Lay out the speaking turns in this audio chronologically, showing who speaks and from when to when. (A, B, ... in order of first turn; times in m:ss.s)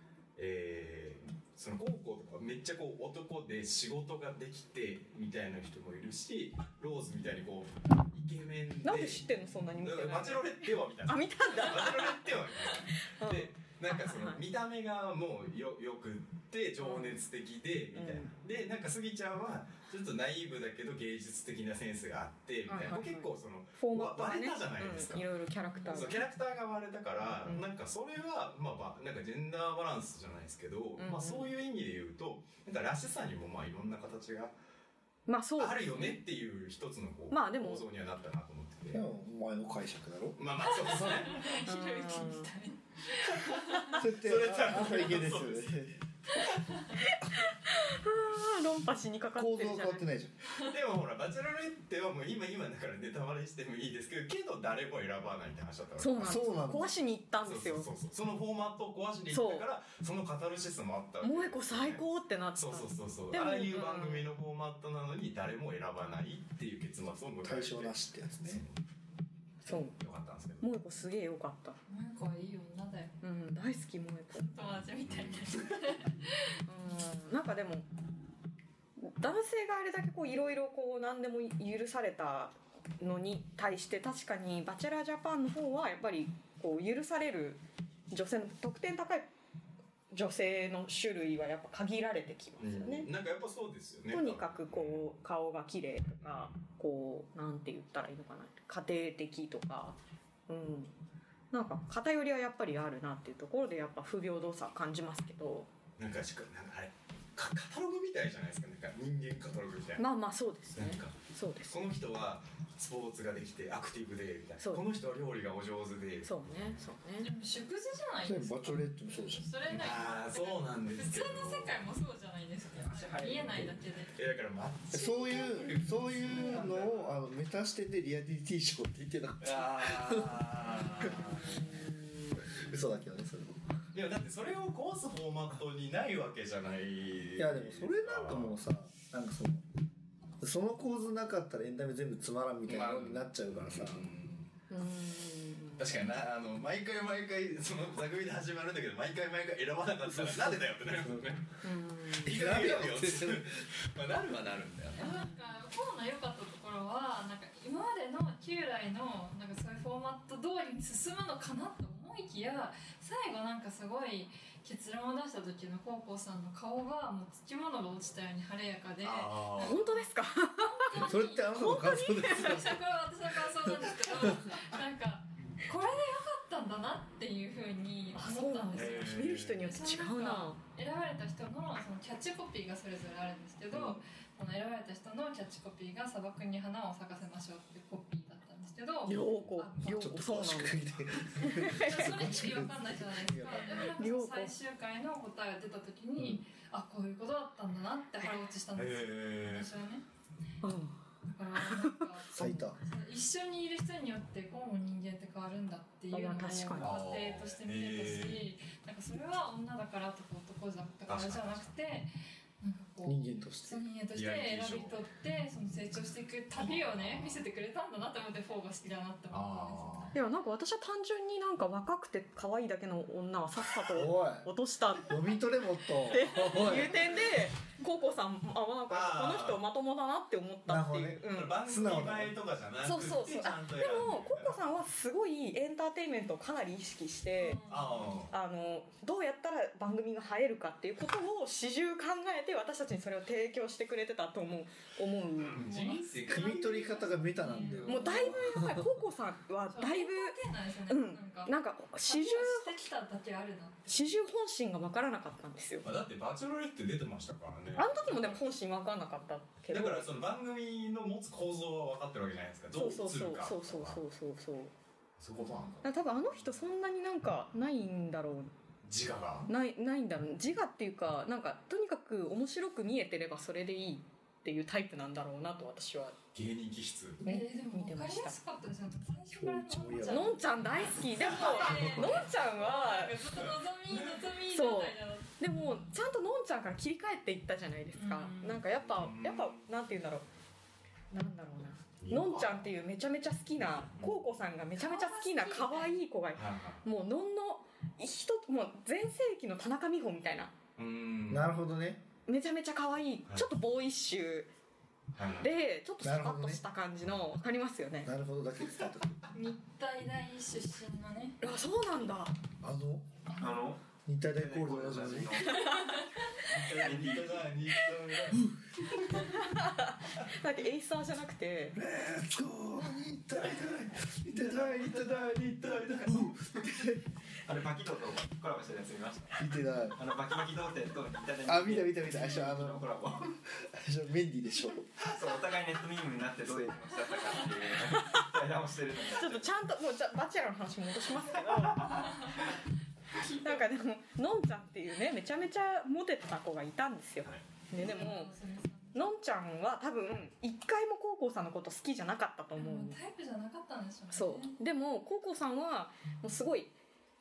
0:00.4-0:25.2 A
0:08.8-0:14.4 B
0:16.8-0:17.2 B
0:17.9-0:18.3 B
0:22.7-0:26.2 B
0:25.9-0:34.5 A
0:31.0-0:31.5 B
0:35.3-0:36.2 B
0:35.6-0:39.0 A
0:37.3-0:37.8 B
0:38.9-0:41.1 C
0:40.4-0:41.5 A
0:40.7-0:44.0 D
0:41.6-0:42.5 B
0:43.5-0:45.8 A
0:43.9-0:46.0 C
0:46.7-0:47.0 D
0:47.0-0:50.0 B
0:49.3-0:50.3 C
0:50.6-0:56.7 A
0:56.0-0:57.9 B
0:56.2-0:57.0 C
0:57.4-1:02.0 A
0:59.3-0:59.7 B
1:01.2-1:04.3 B
1:02.5-1:08.8 A
1:07.4-1:08.6 C
1:09.6-1:09.9 B
1:09.7-1:10.7 A
1:10.6-1:11.8 B
1:11.9-1:13.1 D
1:13.2-1:14.5 B
1:14.3-1:16.6 D
1:15.0-1:15.6 A
1:16.7-1:17.9 B
1:19.0-1:29.3 B
1:30.1-1:33.1 B
1:32.6-1:35.1 A
1:34.1-1:40.0 B
1:36.2-1:36.6 A
1:40.5-1:40.9 B
1:41.5-1:45.7 B
1:46.0-1:50.0 A
1:50.0-1:51.8 B
1:50.8-1:51.2 A
1:51.7-1:56.8 A
1:54.6-1:54.8 B
1:56.2-1:57.3 B
1:57.2-2:04.2 D
1:58.2-1:59.5 C
1:59.6-2:01.8 A
2:02.7-2:03.8 E
2:04.1-2:07.2 A
2:04.9-2:11.6 C
2:09.4-2:11.8 A
2:11.2-2:12.4 B
2:12.6-2:13.6 C
2:13.9-2:18.6 A
2:17.4-2:19.6 C
2:20.4-2:24.1 C
2:22.6-2:24.5 A
2:24.7-2:25.9 B
2:25.8-2:31.5 A
2:30.0-2:31.2 C
2:31.6-2:32.4 B
2:32.1-2:35.2 A
2:32.2-2:33.6 C
2:34.9-3:10.6 D
2:49.0-2:49.8 A
2:49.6-2:52.6 B
2:50.9-2:52.8 C
2:53.6-2:54.5 C
2:58.1-3:00.6 B
2:58.7-2:59.6 A
3:09.0-3:12.3 B
3:09.2-3:14.0 C
3:11.4-3:20.0 D
3:13.7-3:14.5 B
3:18.7-3:19.7 A
3:20.6-3:21.0 B
3:21.2-3:40.2 D
3:21.6-3:22.7 B
3:22.3-3:22.8 C
3:26.1-3:27.0 B
3:26.8-3:28.4 A
3:31.1-3:31.7 A
3:33.0-3:33.8 C
3:34.1-3:35.1 A
3:36.5-3:37.5 A
3:39.3-3:40.1 A
3:40.1-3:45.2 B
3:43.9-3:47.3 C
3:46.1-3:51.6 B
3:48.9-3:49.6 A
3:50.6-3:52.4 C
3:51.3-3:54.6 A
3:52.8-3:57.6 B
3:57.4-3:58.2 D
3:57.7-3:58.3 A
3:58.3-4:05.7 B
4:05.5-4:07.0 A
4:05.6-4:08.1 D
4:06.3-4:09.0 C
4:07.6-4:07.9 A
4:07.8-4:12.8 B
4:09.7-4:14.0 D
4:13.9-4:15.9 B
4:15.8-4:18.4 A
4:17.8-4:20.2 B
4:19.7-4:24.0 A
4:22.7-4:24.7 B
4:25.2-4:25.9 A
4:25.8-4:28.5 B
4:28.8-4:29.5 A
4:29.5-4:36.2 B
4:36.3-4:37.2 A
4:37.2-4:38.4 B
4:37.2-4:45.9 D
4:39.3-4:40.4 C
4:40.1-4:43.3 B
4:41.2-4:42.3 A
4:43.3-4:44.3 A
4:44.5-4:50.2 B
4:47.9-4:48.6 D
4:48.7-4:49.7 A
4:51.1-5:00.5 B
4:52.0-4:52.7 A
4:54.8-4:56.0 D
4:56.3-4:56.8 A
5:00.8-5:01.5 A
5:01.3-5:02.0 C
5:02.2-5:04.5 B
5:05.1-5:05.5 A
5:05.4-5:08.1 B
5:06.0-5:06.6 C
5:08.0-5:09.3 C
5:09.3-5:11.4 D
5:11.4-5:12.4 B
5:12.6-5:13.1 C
5:13.3-5:13.6 D
5:13.4-5:15.8 E
5:14.0-5:15.5 C
5:15.5-5:16.1 B
5:15.6-5:16.2 D
5:16.4-5:17.5 E
5:16.5-5:19.4 A
5:19.1-5:21.8 B
5:21.7-5:27.0 C
5:23.4-5:23.7 A
5:24.3-5:26.6 A
5:27.4-5:33.3 E
5:29.4-5:30.0 C
5:31.4-5:34.9 C
5:35.0-5:39.6 E
5:39.2-5:42.1 B
5:42.0-5:42.4 D
5:43.1-5:43.6 D
5:43.4-5:48.3 B
5:47.7-5:49.1 D
5:48.9-5:53.0 B
5:52.6-5:54.6 D
5:54.1-5:56.7 B